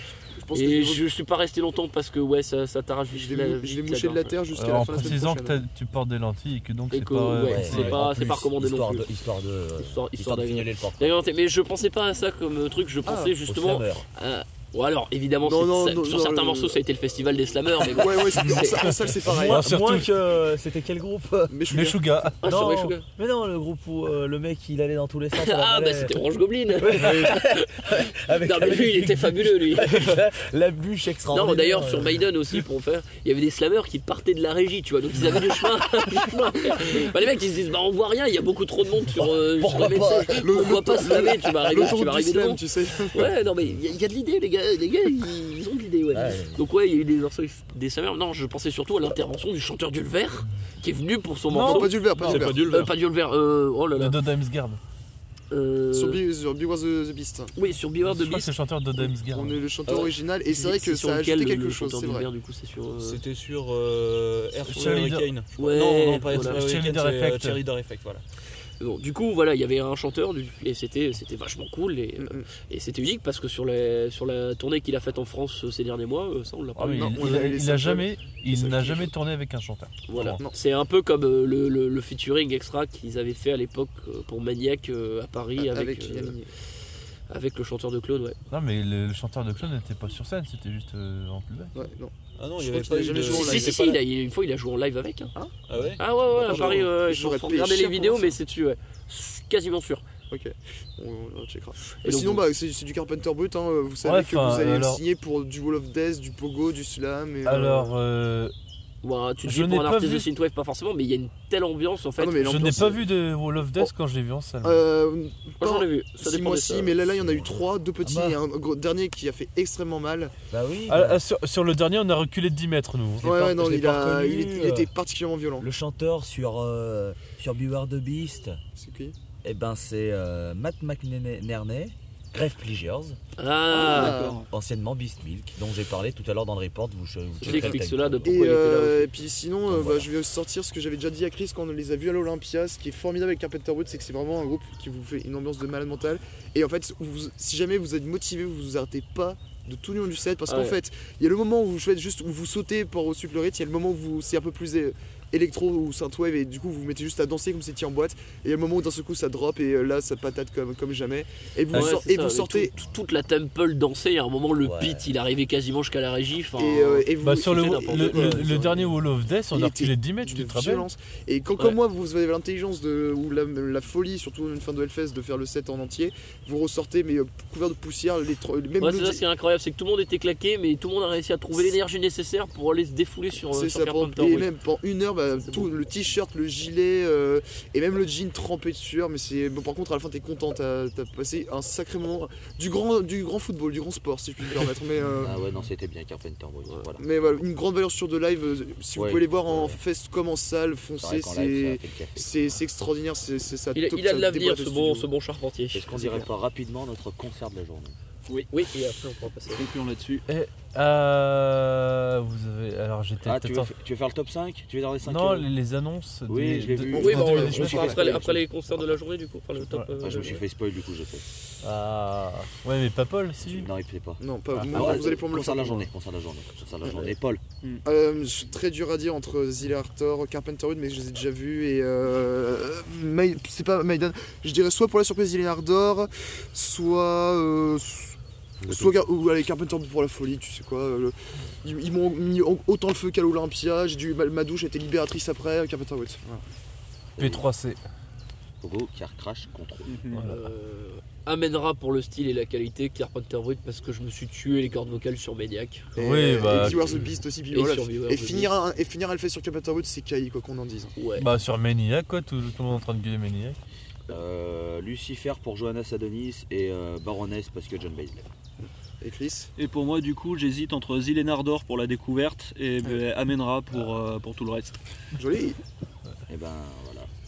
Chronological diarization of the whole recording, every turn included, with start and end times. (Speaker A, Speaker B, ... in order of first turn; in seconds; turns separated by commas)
Speaker A: 0.4-1.0, Speaker B: 0.5-4.4, Speaker A: 3.1-5.6, Speaker C: 4.5-8.0, Speaker B: 6.9-9.1, Speaker D: 7.4-11.2, Speaker E: 7.7-8.0, Speaker B: 9.8-19.0, Speaker A: 13.0-13.3, Speaker D: 13.4-14.1, Speaker A: 15.4-16.8, Speaker A: 17.8-19.7, Speaker C: 18.4-20.1, Speaker D: 19.2-21.6, Speaker A: 21.5-22.3, Speaker C: 21.7-22.4, Speaker B: 22.4-23.0, Speaker D: 22.4-26.2, Speaker B: 25.3-30.0, Speaker D: 26.7-32.6, Speaker B: 31.3-54.2, Speaker D: 39.1-40.5, Speaker A: 40.4-43.3, Speaker D: 43.2-43.8, Speaker D: 46.1-46.7, Speaker C: 51.5-51.9, Speaker A: 51.6-52.6, Speaker E: 52.1-52.9, Speaker C: 53.9-54.8, Speaker B: 55.5-56.2, Speaker A: 55.9-57.5, Speaker B: 57.5-58.5, Speaker C: 58.0-59.6, Speaker A: 59.0-62.3, Speaker B: 59.9-63.2, Speaker E: 63.0-68.2, Speaker C: 64.7-65.3, Speaker B: 65.5-66.6, Speaker C: 66.3-67.6, Speaker B: 68.8-77.1, Speaker A: 72.2-72.5, Speaker C: 76.8-80.4, Speaker A: 76.9-79.1, Speaker B: 80.1-86.4, Speaker A: 80.2-80.6, Speaker A: 85.6-86.5, Speaker B: 87.3-88.4, Speaker C: 88.5-91.8, Speaker A: 91.7-94.0, Speaker E: 92.4-93.9, Speaker B: 93.2-95.3, Speaker E: 95.7-96.9, Speaker B: 96.0-100.0, Speaker A: 96.3-98.3, Speaker A: 100.3-107.9, Speaker B: 102.0-102.4, Speaker C: 104.0-105.0, Speaker C: 107.4-108.5, Speaker B: 109.0-112.9, Speaker C: 109.4-110.3, Speaker A: 112.2-113.0, Speaker C: 112.4-114.8, Speaker A: 114.6-120.3, Speaker B: 115.6-117.0, Speaker D: 117.2-118.4, Speaker D: 120.5-121.2, Speaker C: 120.9-123.4, Speaker D: 123.2-124.9, Speaker A: 123.2-125.7, Speaker D: 125.6-128.6, Speaker A: 128.8-129.2, Speaker D: 129.4-133.2, Speaker B: 133.4-134.3, Speaker A: 133.7-134.4, Speaker E: 133.7-134.5, Speaker D: 134.4-138.4, Speaker B: 137.4-139.1, Speaker A: 138.2-162.8, Speaker D: 139.7-140.1, Speaker B: 150.4-150.8, Speaker B: 161.7-168.6, Speaker C: 161.7-162.0, Speaker D: 164.6-165.1, Speaker A: 166.6-168.9, Speaker C: 167.2-170.9, Speaker A: 169.5-179.2, Speaker B: 178.8-184.5, Speaker A: 183.5-195.4, Speaker D: 195.2-197.0, Speaker A: 197.0-205.1, Speaker D: 198.9-199.8, Speaker D: 201.0-202.3, Speaker B: 203.7-206.3, Speaker D: 205.7-207.9, Speaker B: 208.5-209.6, Speaker E: 209.5-210.2, Speaker C: 210.3-213.7, Speaker D: 213.2-215.5, Speaker C: 215.0-218.3, Speaker D: 216.3-219.0, Speaker A: 216.9-217.9, Speaker B: 216.9-220.4, Speaker C: 219.7-220.0, Speaker D: 220.0-221.2, Speaker C: 221.6-223.7, Speaker D: 223.4-227.4, Speaker A: 224.2-225.9, Speaker C: 224.5-225.0, Speaker A: 227.8-246.4, Speaker D: 238.6-239.0, Speaker D: 247.2-247.4, Speaker C: 247.2-247.8, Speaker D: 248.6-250.0, Speaker E: 249.9-250.3, Speaker C: 250.1-250.3, Speaker B: 250.3-256.0, Speaker C: 256.0-256.9, Speaker A: 256.0-260.9, Speaker D: 256.5-257.1, Speaker B: 257.5-258.5, Speaker B: 260.9-261.3, Speaker C: 261.1-263.6, Speaker D: 264.1-268.2, Speaker A: 269.0-269.5, Speaker E: 269.6-274.8, Speaker A: 275.1-275.6, Speaker D: 276.3-277.1